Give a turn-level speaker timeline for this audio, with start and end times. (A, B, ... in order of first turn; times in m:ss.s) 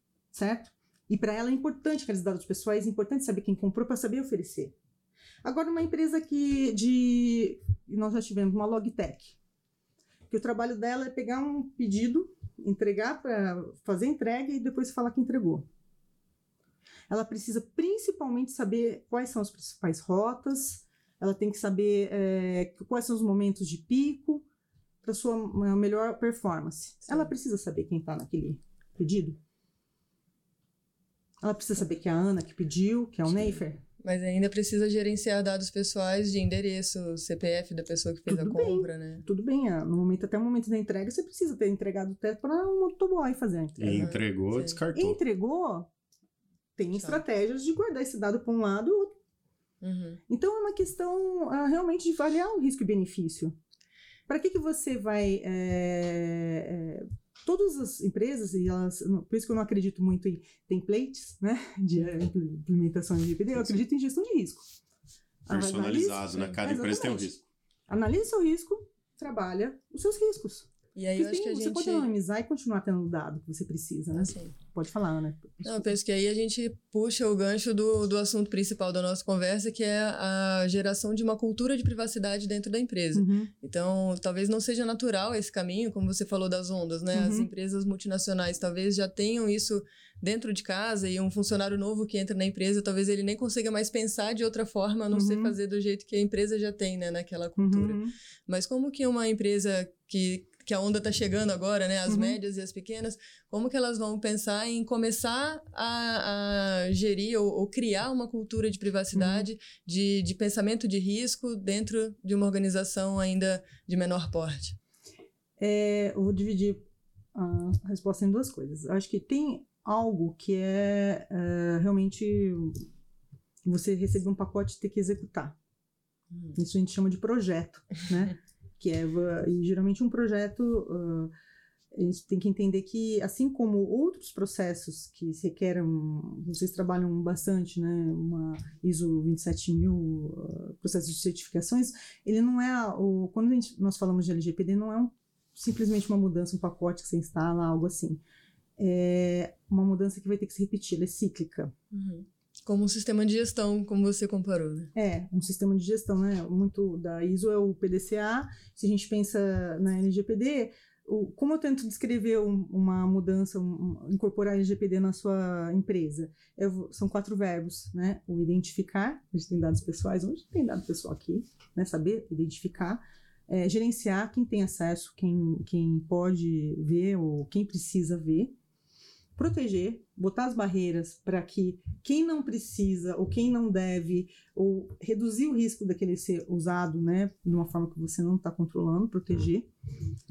0:00.3-0:04.7 A
0:05.4-0:09.4 A
0:10.3-0:15.7 A
0:17.1-0:24.4 A
0:25.0-0:29.4 A
0:31.4-0:33.8 A
0:34.0-0:39.2 B
0:38.3-0:44.1 A
0:43.8-0:45.2 C
0:43.8-0:44.8 B
0:44.9-0:45.9 A
0:46.8-0:49.2 A
0:46.9-0:47.2 B
0:49.8-0:50.2 B
0:50.3-0:53.6 A
0:54.3-1:04.6 A
1:05.4-1:07.3 A
1:05.5-1:07.4 C
1:07.9-1:15.9 A
1:11.0-1:12.1 B
1:14.1-1:14.5 B
1:15.6-1:54.8 B
1:23.1-1:23.5 A
1:27.1-1:27.5 A
1:35.1-1:35.6 A
1:37.6-1:38.1 A
1:42.1-1:42.4 A
1:49.1-1:49.5 A
1:55.6-1:56.8 A
1:57.3-2:02.8 A
2:03.6-2:05.6 A
2:06.6-2:11.3 A
2:11.9-2:28.2 A
2:28.8-2:31.7 A
2:31.9-2:34.9 B
2:34.9-2:58.6 A
2:59.4-3:09.7 A